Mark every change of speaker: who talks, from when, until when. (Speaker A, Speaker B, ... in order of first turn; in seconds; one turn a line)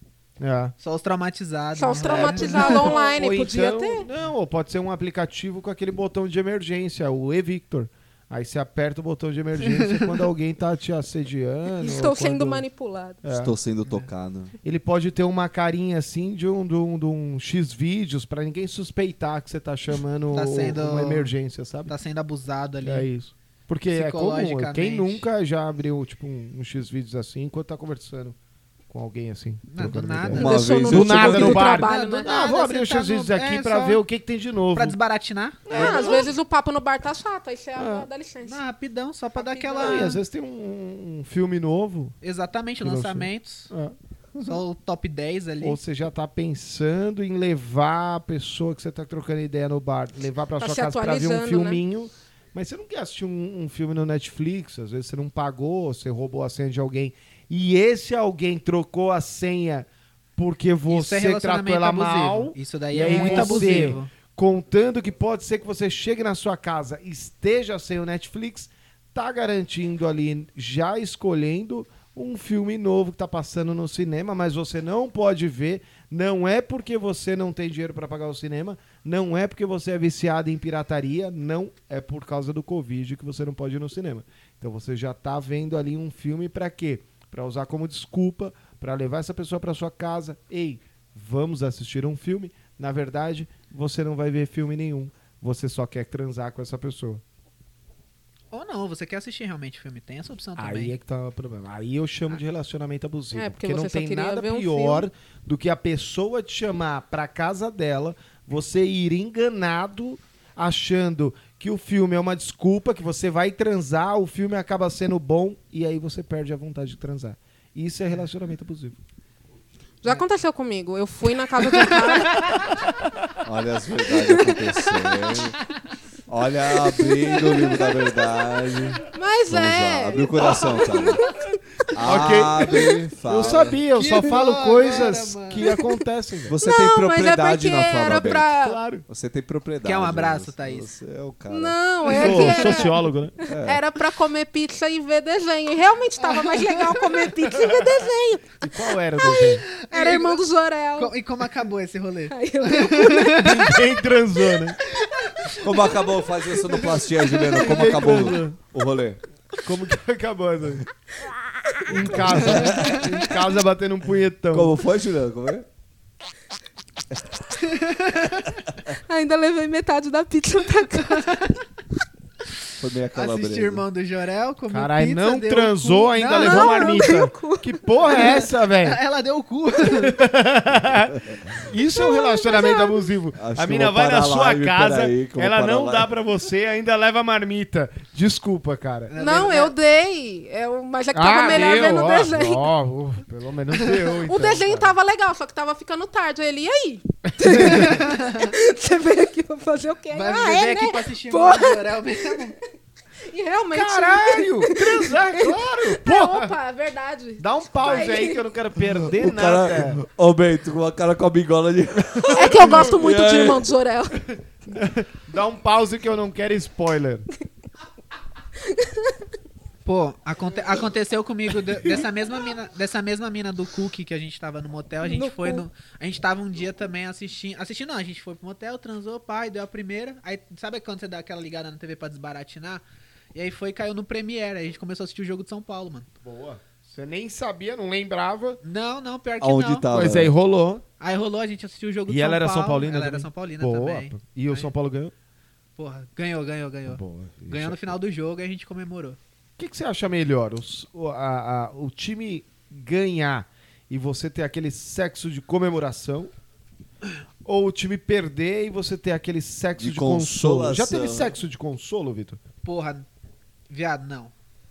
Speaker A: 0.4-0.7
Speaker B: 0.8-3.0
Speaker C: 1.7-4.0
Speaker A: 2.0-12.6
Speaker B: 9.7-10.2
Speaker C: 11.8-13.2
Speaker A: 13.2-13.6
Speaker D: 13.3-14.5
Speaker A: 14.6-21.9
Speaker B: 20.3-21.3
Speaker B: 21.9-23.1
Speaker A: 22.8-28.4
Speaker B: 23.9-25.2
Speaker A: 28.9-35.0
Speaker B: 29.7-30.8
Speaker D: 30.3-31.7
Speaker C: 30.4-32.4
Speaker B: 31.4-34.0
Speaker B: 34.7-36.3
Speaker A: 35.7-36.3
Speaker C: 35.7-38.6
Speaker A: 37.8-38.1
Speaker B: 38.4-40.2
Speaker C: 39.4-40.1
Speaker A: 39.8-42.1
Speaker B: 42.2-43.7
Speaker A: 42.8-44.6
Speaker B: 44.4-45.8
Speaker A: 45.6-97.2
Speaker C: 50.6-51.8
Speaker B: 60.9-64.1
Speaker C: 63.1-63.7
Speaker B: 98.5-100.9
Speaker A: 100.6-119.0
Speaker C: 103.3-105.0
Speaker C: 120.0-122.7
Speaker D: 123.4-125.6
Speaker C: 124.3-124.7
Speaker D: 126.3-131.3
Speaker C: 127.6-127.8
Speaker C: 129.0-131.2
Speaker D: 131.9-133.8
Speaker A: 132.0-136.5
Speaker B: 133.9-135.8
Speaker D: 136.5-138.5
Speaker C: 136.6-138.8
Speaker A: 138.6-139.0
Speaker D: 139.1-142.8
Speaker B: 139.8-140.9
Speaker C: 141.5-151.1
Speaker A: 142.1-143.3
Speaker D: 143.4-143.8
Speaker B: 146.2-147.3
Speaker A: 148.6-149.6
Speaker B: 149.7-150.4
Speaker B: 151.0-153.6
Speaker C: 152.3-153.6
Speaker A: 153.3-154.8
Speaker B: 154.9-155.7
Speaker D: 155.6-159.2
Speaker A: 157.6-158.6
Speaker A: 159.6-160.8
Speaker C: 161.7-162.0
Speaker A: 161.9-164.8
Speaker D: 162.2-163.0
Speaker B: 162.5-163.2
Speaker D: 164.5-165.7
Speaker B: 167.6-168.5
Speaker C: 169.0-171.4
Speaker B: 170.9-171.6
Speaker D: 172.8-173.8
Speaker B: 173.1-177.0
Speaker A: 174.7-179.0
Speaker C: 176.4-177.7
Speaker B: 178.1-180.2
Speaker A: 179.9-189.1
Speaker D: 180.9-181.4
Speaker C: 181.9-183.1
Speaker D: 183.3-186.1
Speaker B: 189.1-189.7
Speaker C: 189.2-192.7
Speaker A: 191.1-194.9
Speaker C: 194.2-202.5
Speaker A: 197.4-197.9
Speaker B: 197.5-198.5
Speaker B: 200.1-202.6
Speaker C: 203.3-208.4
Speaker A: 203.7-206.5
Speaker A: 207.4-210.0
Speaker D: 209.1-213.7
Speaker C: 212.3-214.2
Speaker A: 212.6-212.8
Speaker A: 214.7-217.3
Speaker C: 218.8-219.1
Speaker B: 219.8-232.8
Speaker C: 225.0-225.6
Speaker B: 233.3-236.1
Speaker A: 236.2-238.6
Speaker B: 238.6-239.9
Speaker D: 239.4-240.3
Speaker A: 239.9-240.8
Speaker B: 241.0-244.7
Speaker A: 242.1-245.1
Speaker B: 245.8-249.2
Speaker A: 246.9-247.9
Speaker A: 249.6-256.3
Speaker A: 257.4-262.4
Speaker D: 259.8-261.3
Speaker B: 262.6-263.1
Speaker B: 263.7-264.3